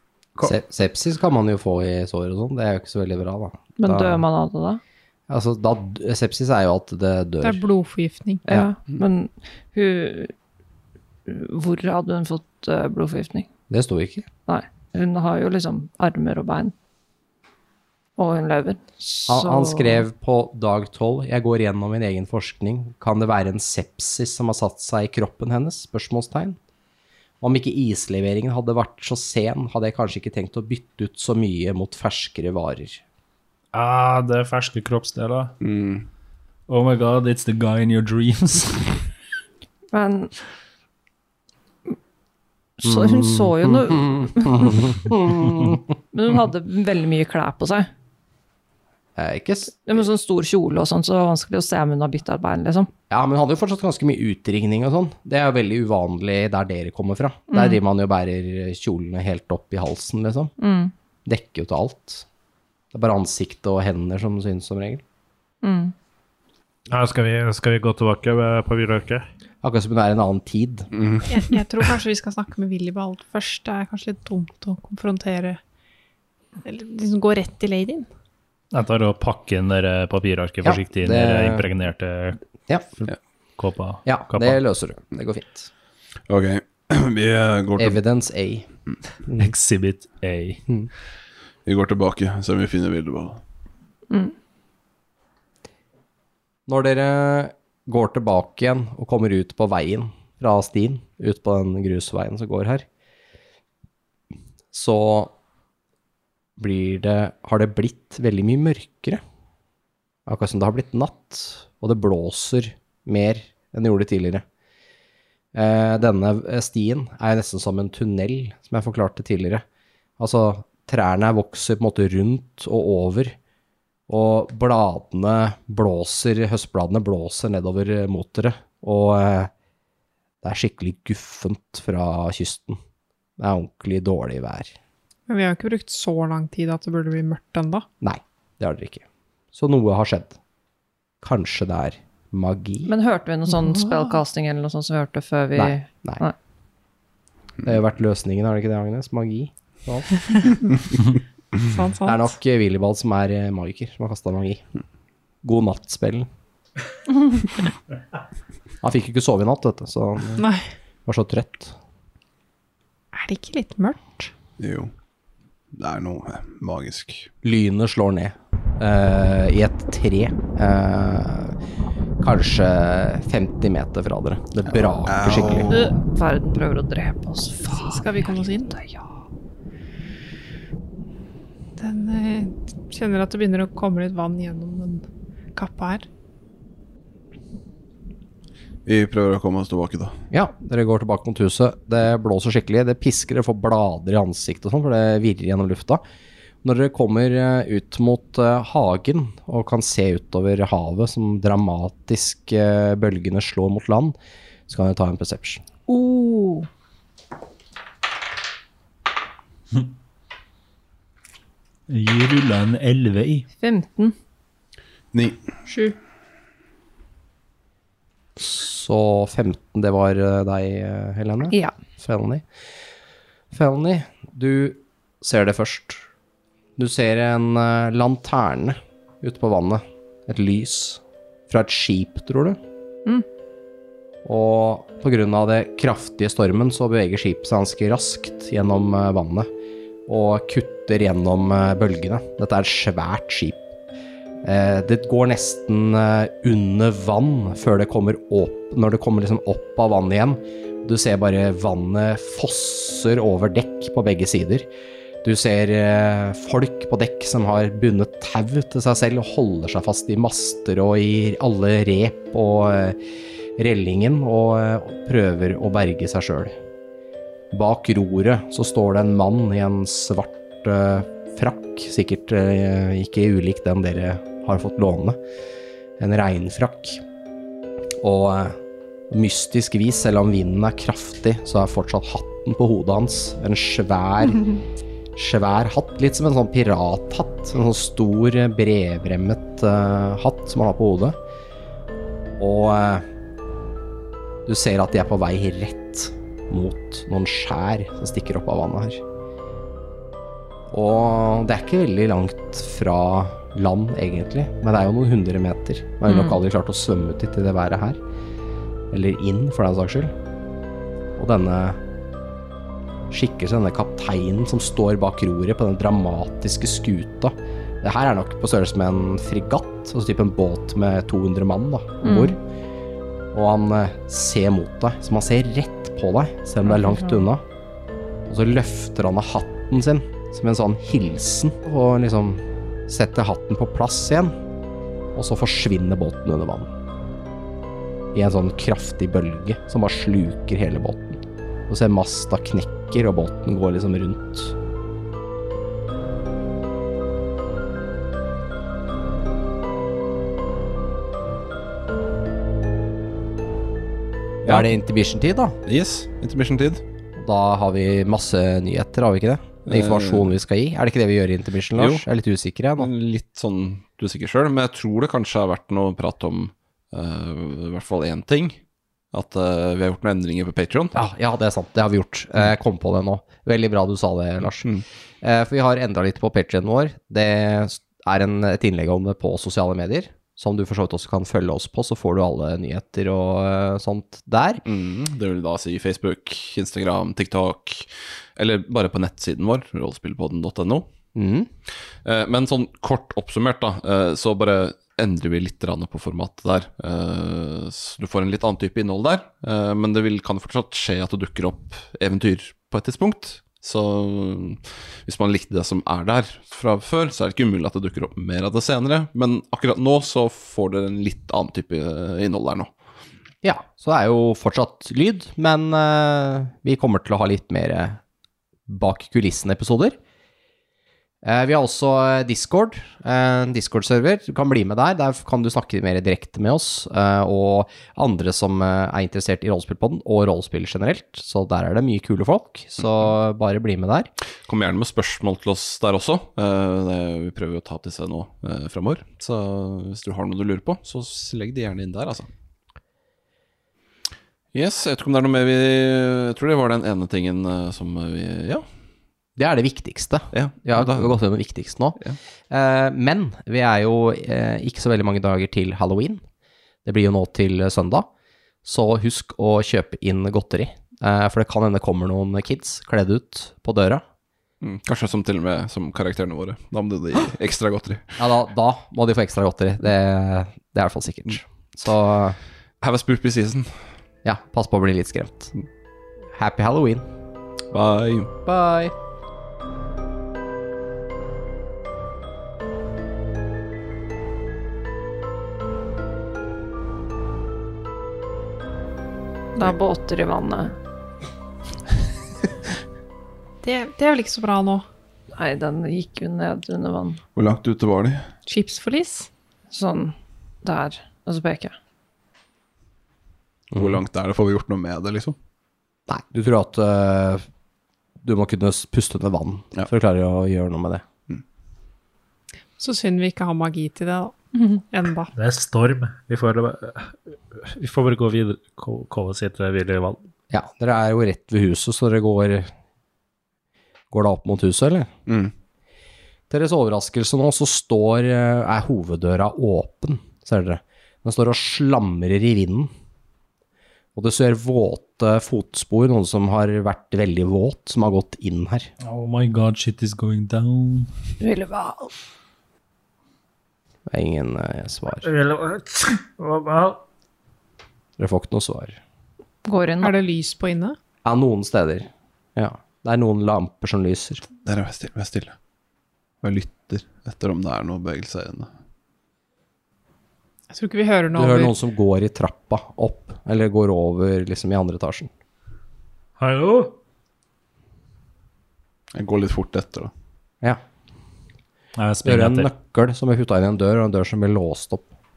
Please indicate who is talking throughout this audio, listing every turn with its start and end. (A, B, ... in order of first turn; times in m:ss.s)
0:00.4-0:04.2 A
0:03.8-0:04.8 B
0:05.3-0:07.6 A
0:07.4-0:08.4 C
0:08.5-0:10.3 B
0:11.3-0:13.5 B
0:13.7-0:14.3 A
0:14.5-0:16.7 B
0:18.2-0:20.0 B
0:19.3-0:26.6 A
0:27.4-0:33.0 A
0:33.7-0:35.5 D
0:34.0-0:34.7 E
0:35.6-0:36.1 F
0:36.7-0:39.0 D
0:39.9-0:40.3 B
0:42.8-0:44.9 B
0:42.8-0:45.8 A
0:46.1-0:47.9 B
0:49.2-0:50.0 A
0:49.8-0:52.9 B
0:53.1-1:00.5 A
0:57.5-0:57.8 B
1:00.6-1:00.9 B
1:01.2-1:02.2 A
1:02.9-1:05.0 A
1:05.6-1:05.9 B
1:06.9-1:09.2 E
1:09.6-1:10.9 A
1:10.9-1:11.3 F
1:11.3-1:15.6 C
1:16.6-1:18.1 C
1:18.7-1:22.4 D
1:20.6-1:21.7 A
1:23.6-1:24.6 D
1:24.0-1:25.7 A
1:26.3-1:28.0 F
1:27.8-1:28.7 A
1:29.4-1:30.6 D
1:31.6-1:33.4 F
1:36.7-1:42.8 A
1:44.7-1:45.3 A
1:46.6-1:49.2 A
1:50.2-1:54.4 A
1:55.5-1:59.6 A
2:00.2-2:03.4 A
2:04.1-2:09.5 A
2:10.4-2:12.8 A
2:13.4-2:14.7 A
2:15.3-2:17.8 C
2:18.0-2:20.4 A
2:21.2-2:22.9 A
2:22.8-2:26.3 B
2:25.6-2:26.2 A
2:27.6-2:30.1 A
2:31.6-2:32.2 C
2:32.0-2:34.6 A
2:35.4-2:36.3 A
2:38.8-2:40.4 A
2:41.0-2:41.7 A
2:43.1-2:44.3 C
2:44.6-2:44.9 F
2:45.7-2:47.3 F
2:47.4-2:51.5 A
2:52.2-2:55.7 A
2:54.7-2:56.0 F
2:55.7-2:59.0 B
2:57.6-2:58.8 C
3:01.8-3:06.1 C
3:08.8-3:10.2 F
3:10.3-3:16.0 A
3:16.6-3:24.1 A
3:24.7-3:25.6 A
3:25.9-3:26.7 B
3:31.9-3:33.5 D
3:33.6-3:34.1 B
3:35.1-3:35.4 F
3:35.7-3:36.0 C
3:38.4-3:42.4 A
3:43.5-3:46.0 A
3:46.8-3:52.6 A
3:54.2-3:59.5 A
4:00.1-4:03.6 A
4:04.4-4:14.7 A
4:15.2-4:23.0 A
4:23.6-4:26.5 A
4:27.5-4:35.2 A
4:36.0-4:37.0 A
4:38.0-4:38.6 A
4:39.1-4:44.5 A
4:45.2-4:51.2 A
4:52.4-4:53.0 A
4:54.4-4:59.0 A
5:00.7-5:08.0 A
5:06.0-5:06.4 B
5:08.9-5:10.1 A
5:11.2-5:11.8 A
5:13.1-5:22.4 A
5:22.0-5:22.4 B
5:23.3-5:27.4 A
5:26.7-5:27.2 B
5:28.3-5:34.3 A
5:35.1-5:36.7 A
5:38.1-5:44.5 A
5:54.4-5:54.7 F
5:54.4-5:55.6 A
5:55.6-5:56.8 F
5:57.2-6:02.9 A
5:59.7-6:00.3 F
6:01.7-6:02.0 F
6:02.8-6:08.6 F
6:09.1-6:11.0 F
6:10.9-6:14.7 A
6:15.2-6:24.6 A
6:24.6-6:30.9 F
6:31.1-6:31.5 A
6:32.0-6:52.7 F
6:53.4-6:58.0 A
6:58.7-7:00.0 A
7:01.2-7:14.1 A
7:14.4-7:22.3 F
7:24.5-7:28.6 F
7:29.4-7:32.0 A
7:30.3-7:31.1 F
7:32.5-7:36.2 A
7:36.8-7:38.1 A
7:38.6-7:44.0 A
7:44.6-7:48.2 F
7:48.2-7:52.4 A
7:52.8-7:53.7 F
7:54.2-7:55.5 A
7:56.3-7:57.0 A
7:57.7-7:58.3 F
7:58.4-7:58.9 A
8:09.5-8:10.8 B
8:13.6-8:14.8 C
8:15.3-8:17.2 B
8:17.3-8:18.2 F
8:18.4-8:19.3 C
8:19.7-8:21.7 B
8:23.7-8:24.0 A
8:23.7-8:25.4 F
8:26.1-8:27.4 A
8:28.2-8:31.0 A
8:32.8-8:35.3 C
8:35.4-8:37.1 E
8:37.8-8:40.1 E
8:40.5-8:42.7 A
8:44.1-8:45.1 A
8:45.3-8:45.5 F
8:46.5-8:52.9 A
8:54.1-8:58.9 A
8:59.6-9:00.0 D
9:01.4-9:02.1 B
9:04.1-9:05.3 A
9:05.2-9:07.0 E
9:08.2-9:09.0 A
9:09.6-9:10.1 B
9:10.0-9:11.0 C
9:11.2-9:14.4 A
9:14.6-9:15.5 F
9:16.4-9:18.7 F
9:20.7-9:21.7 C
9:21.3-9:25.3 A
9:26.4-9:26.9 E
9:29.1-9:30.1 F
9:32.0-9:32.7 D
9:32.2-9:35.1 A